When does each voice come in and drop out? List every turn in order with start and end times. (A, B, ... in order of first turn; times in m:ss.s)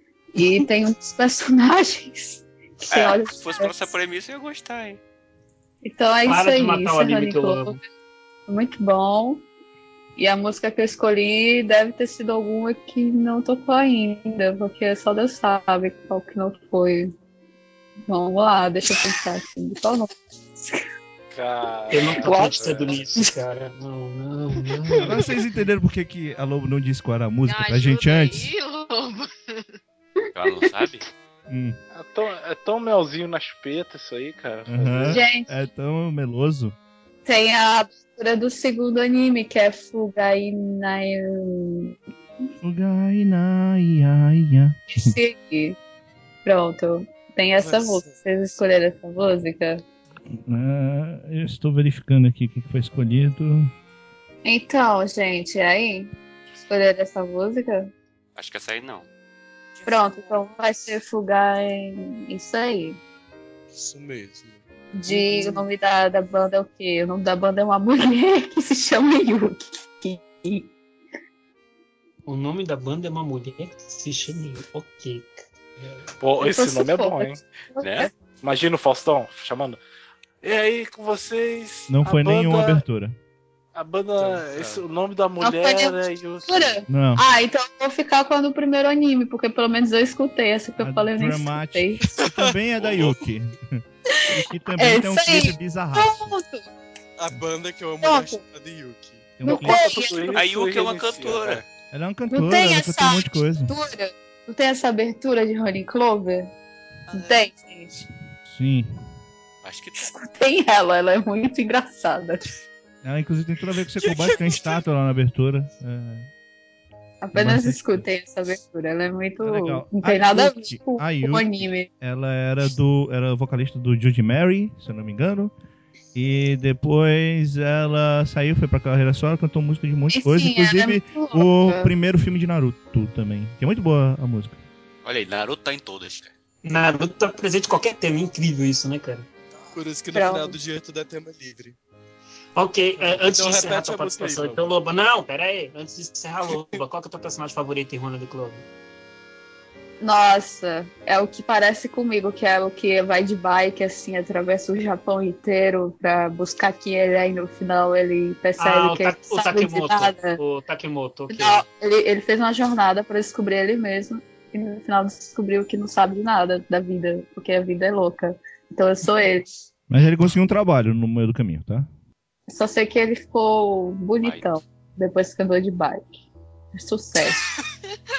0:00.4-0:03.8 A
0:02.9-0:05.0 B
0:05.8-0:07.8 A
0:06.3-0:07.8 C
0:08.5-0:09.4 A
0:10.2-0:17.1 A
0:18.1-0:20.8 A
0:21.3-0:23.1 D
0:21.9-0:25.2 C
0:22.3-0:22.6 A
0:25.0-0:28.5 E
0:27.5-0:29.4 F
0:30.4-0:31.0 B
0:30.6-0:31.0 A
0:31.5-0:31.8 E
0:31.9-0:35.3 D
0:34.7-0:36.8 E
0:35.1-0:35.6 A
0:37.3-0:42.0 A
0:42.6-0:45.1 E
0:45.0-0:45.8 A
0:46.4-0:49.8 A
0:47.6-0:48.0 G
0:50.4-0:53.7 E
0:54.4-0:56.1 A
0:56.6-0:57.9 A
0:58.4-0:59.1 B
0:59.8-1:00.9 F
0:59.9-1:03.0 A
1:03.7-1:04.6 G
1:04.9-1:10.7 A
1:05.1-1:05.4 C
1:12.3-1:16.0 C
1:16.2-1:17.4 D
1:16.4-1:18.1 A
1:17.8-1:18.1 B
1:18.4-1:19.8 D
1:20.4-1:22.8 D
1:21.9-1:23.2 E
1:23.8-1:26.8 D
1:25.4-1:32.1 A
1:26.9-1:27.2 E
1:30.8-1:36.3 E
1:34.1-1:36.7 A
1:37.2-1:39.3 G
1:38.0-1:38.4 A
1:39.4-1:40.1 E
1:39.4-1:40.4 A
1:39.5-1:41.7 D
1:40.3-1:41.6 B
1:41.9-1:43.7 E
1:42.3-1:46.5 A
1:47.1-1:47.5 F
1:47.1-1:48.1 A
1:48.5-1:49.0 E
1:49.6-1:50.0 B
1:50.0-1:52.5 A
1:53.0-1:56.3 E
1:54.0-1:54.8 G
1:57.2-2:01.9 A
1:57.3-1:58.1 E
1:59.4-2:05.5 E
2:06.2-2:14.6 E
2:10.1-2:11.9 A
2:15.0-2:16.3 B
2:16.6-2:19.3 C
2:19.7-2:21.8 G
2:20.1-2:20.6 A
2:22.6-2:28.6 C
2:23.0-2:24.6 G
2:30.0-2:40.4 A
2:38.6-2:41.6 C
2:41.3-2:49.5 A
2:49.9-2:51.9 E
2:52.5-2:56.1 A
2:54.2-2:54.6 B
2:56.8-2:57.4 A